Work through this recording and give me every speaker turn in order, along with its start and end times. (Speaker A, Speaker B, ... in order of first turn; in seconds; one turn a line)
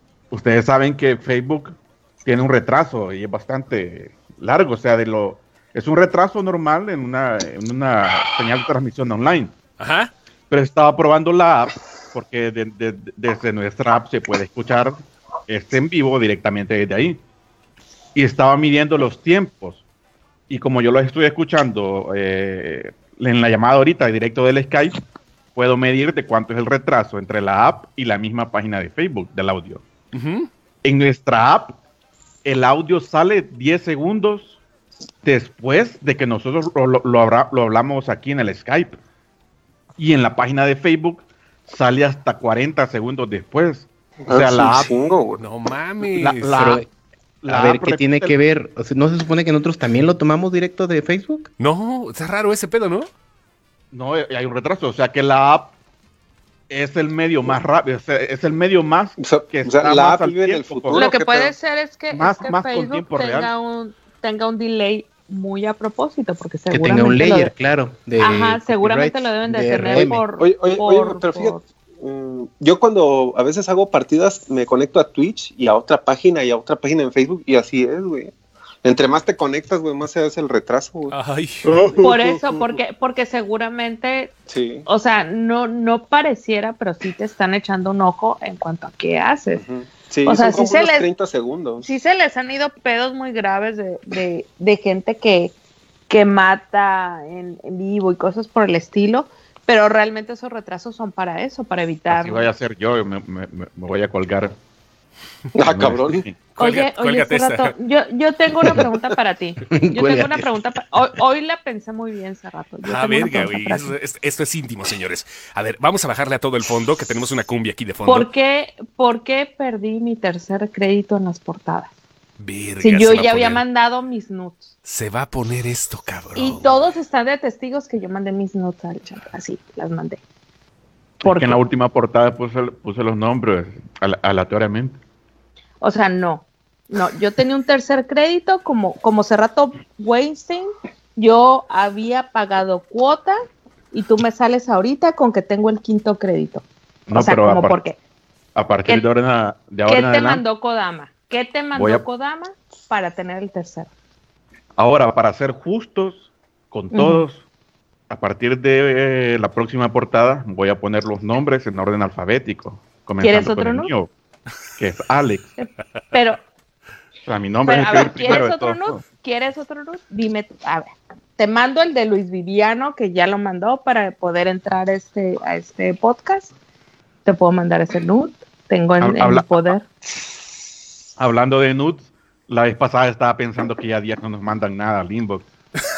Speaker A: 0.3-9.5
Speaker B: 9.8-10.1
Speaker A: 10.5-17.2
Speaker A: 18.1-19.8
Speaker A: 20.5-25.0
Speaker A: 25.5-29.8
Speaker B: 30.1-30.5
Speaker A: 30.8-31.8
Speaker A: 32.4-34.6
Speaker A: 35.2-39.0
Speaker A: 40.0-44.9
Speaker C: 44.2-45.4
Speaker B: 45.4-46.8
Speaker A: 46.1-46.8
Speaker D: 46.5-46.9
Speaker A: 47.4-48.4
Speaker D: 47.5-51.5
Speaker B: 51.6-53.1
Speaker A: 53.9-55.7
Speaker A: 56.7-61.1
Speaker C: 59.2-61.5
Speaker E: 60.9-67.5
Speaker A: 62.1-63.5
Speaker D: 66.7-70.2
Speaker E: 68.2-71.6
Speaker C: 70.4-78.3
Speaker C: 78.8-81.1
Speaker B: 81.1-81.7
Speaker C: 81.6-82.8
Speaker E: 82.0-89.6
Speaker C: 84.5-84.8
Speaker C: 89.5-91.9
Speaker E: 90.2-91.1
Speaker E: 91.8-95.5
Speaker E: 96.1-102.5
Speaker A: 102.1-104.5
Speaker C: 105.5-106.2
Speaker A: 105.7-106.4
Speaker B: 106.6-107.7
Speaker E: 106.6-113.9
Speaker D: 109.7-110.5
Speaker B: 112.8-118.3
Speaker E: 118.0-121.9
Speaker B: 122.4-123.6
Speaker E: 122.8-124.7
Speaker B: 124.8-126.7
Speaker E: 126.3-130.2
Speaker E: 131.2-131.6
Speaker A: 131.2-135.0
Speaker E: 135.8-143.4
Speaker E: 143.9-148.0
Speaker A: 147.1-147.8
Speaker A: 148.5-150.4
Speaker E: 149.8-153.9
Speaker A: 151.7-152.0
Speaker A: 154.8-157.4
Speaker E: 156.9-157.2
Speaker A: 158.1-164.1
Speaker E: 163.2-163.9
Speaker A: 164.8-165.5
Speaker E: 165.6-166.4
Speaker A: 167.2-169.0
Speaker E: 167.6-176.5
Speaker E: 177.2-179.8
Speaker A: 179.0-179.7
Speaker A: 181.2-185.5